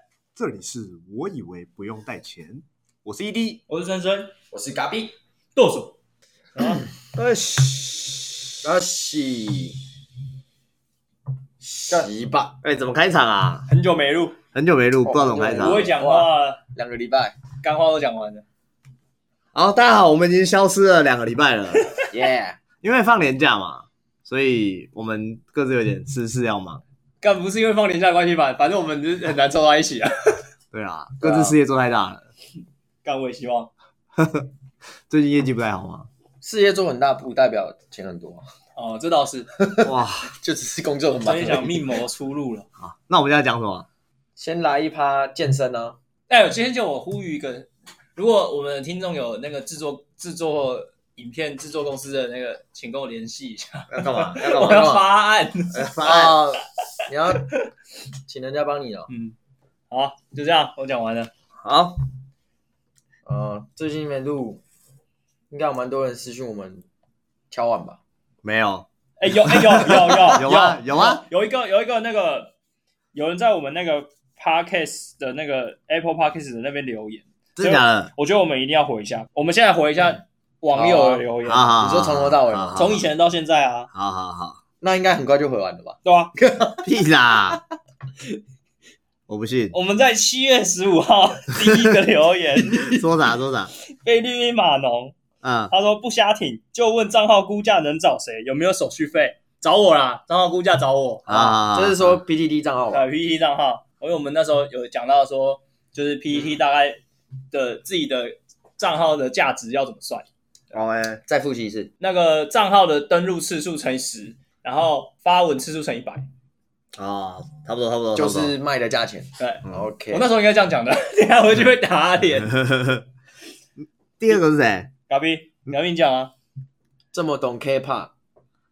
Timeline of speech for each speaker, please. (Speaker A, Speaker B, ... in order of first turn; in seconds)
Speaker A: 0.3-3.6, 7.1-8.2, 12.6-13.7, 14.5-15.9, 19.5-21.9, 22.8-26.8, 30.7-32.2, 34.2-34.5, 35.1-36.1, 39.8-40.3, 42.8-43.9, 53.9-55.0, 55.7-56.6, 61.6-62.0, 68.4-71.2, 77.6-78.1, 81.4-83.0, 83.9-84.6, 86.8-87.6, 89.3-89.7, 91.6-92.0, 92.7-93.7, 95.4-95.7, 101.3-102.2, 110.7-111.2, 117.0-118.5, 122.5-123.0, 124.2-124.9
Speaker B: 3.7-4.3, 5.5-5.9, 13.7-14.3, 15.5-16.6, 17.6-18.4, 27.2-30.4, 33.0-33.7, 38.8-39.5, 41.2-42.6, 46.3-56.4, 59.9-61.3, 69.2-72.5, 73.1-81.8, 82.7-83.9, 86.0-86.3, 89.7-93.0, 94.0-95.1, 95.7-101.3, 102.9-107.0, 107.5-110.3, 112.0-116.2, 119.4-122.6, 125.1-126.3
Speaker C: 4.5-5.1, 8.6-9.8, 11.6-12.6, 15.0-17.4, 22.1-22.6, 31.2-31.5, 36.4-38.5, 39.6-41.9, 44.4-46.0, 54.5-55.0, 56.0-56.3, 57.1-57.5, 58.3-59.1, 63.2-64.6, 65.5-66.8, 67.5-68.0, 80.7-81.2, 81.8-83.0, 84.8-86.8, 101.3-103.1, 111.3-111.9, 118.1-120.2, 127.1-128.1